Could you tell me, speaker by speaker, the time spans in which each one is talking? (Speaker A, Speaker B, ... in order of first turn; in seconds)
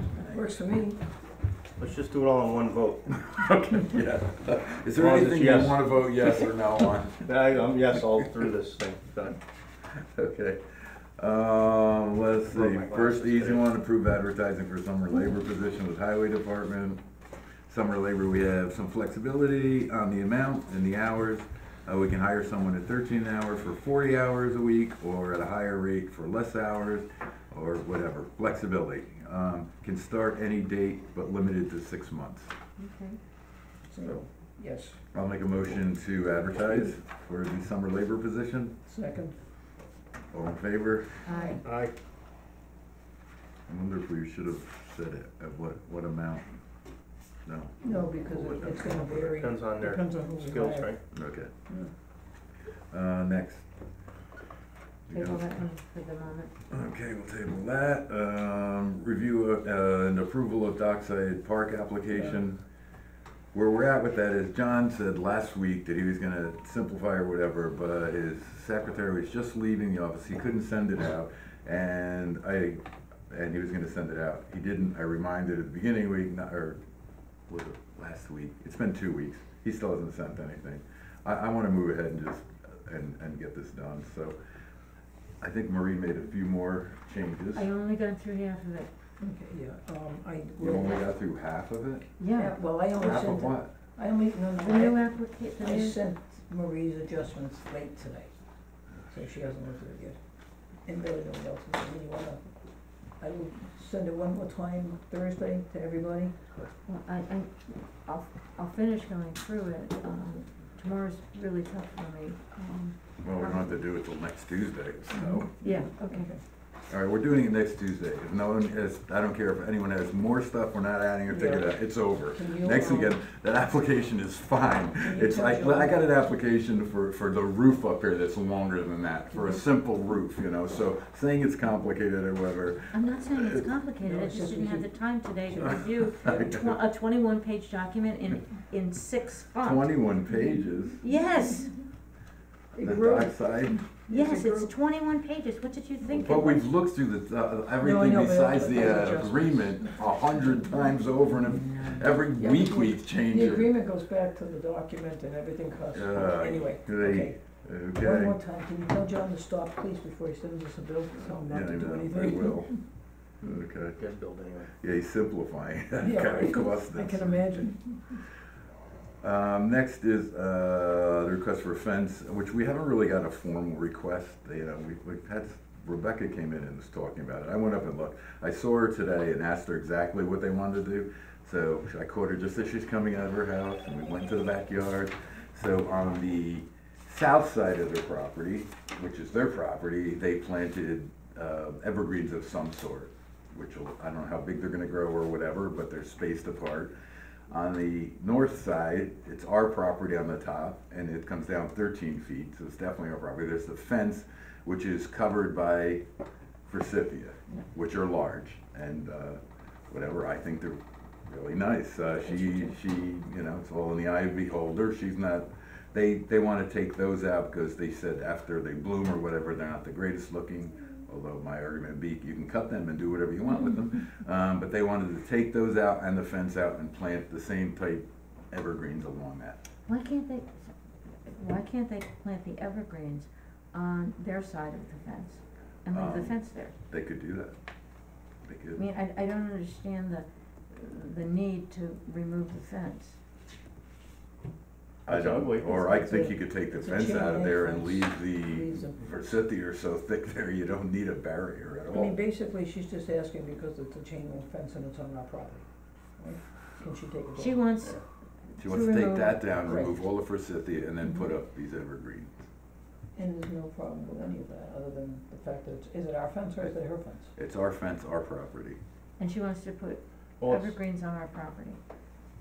Speaker A: 0.3-1.0, 33.9-35.0, 38.9-39.4, 41.3-41.6, 47.8-50.9, 89.2-91.0, 92.3-98.3, 99.1-100.2, 100.8-102.4, 103.2-106.3, 115.6-116.4, 121.3-123.2, 125.0-126.0, 129.3-129.6, 134.0-134.9, 135.5-135.9, 142.7-143.4, 144.1-144.7, 147.8-149.9, 152.3-157.4, 158.0-162.8, 166.0-168.2, 246.0-249.0, 251.9-255.6, 256.2-257.7, 259.7-259.9, 263.1-267.3
Speaker B: 1.8-3.8, 4.9-5.9, 7.2-9.4, 12.5-13.7, 41.6-41.9, 49.3-51.0, 163.9-164.7, 245.1-246.1, 270.4-270.7
Speaker C: 3.5-7.4, 9.9-10.6, 11.2-17.0, 17.7-32.5, 35.1-38.8, 40.3-41.2, 43.7-46.4, 47.5-49.4, 51.1-51.5, 52.9-53.6, 55.1-55.5, 56.7-62.6, 63.5-76.8, 77.5-84.3, 85.4-87.7, 90.6-92.1, 92.9-93.7, 113.2-115.5, 116.9-133.7, 136.2-136.8, 139.6-141.0, 142.8-143.8, 146.1-153.7, 155.9-158.3, 161.5-162.7, 163.4-163.9, 164.8-167.7, 169.2-196.9, 197.5-206.0, 206.7-229.6, 235.9-236.3, 236.9-237.6, 238.4-238.8, 245.1-252.2, 258.6-262.3, 267.4-268.8
Speaker D: 32.8-33.2, 41.2-41.6, 55.1-56.5, 87.5-88.9, 92.2-92.5, 94.6-96.0, 106.8-113.7, 115.3-116.3, 132.9-139.8, 141.0-141.7, 144.1-146.7, 151.4-152.1, 229.9-230.7, 231.2-236.7, 238.8-243.2, 257.4-259.9, 269.2-271.8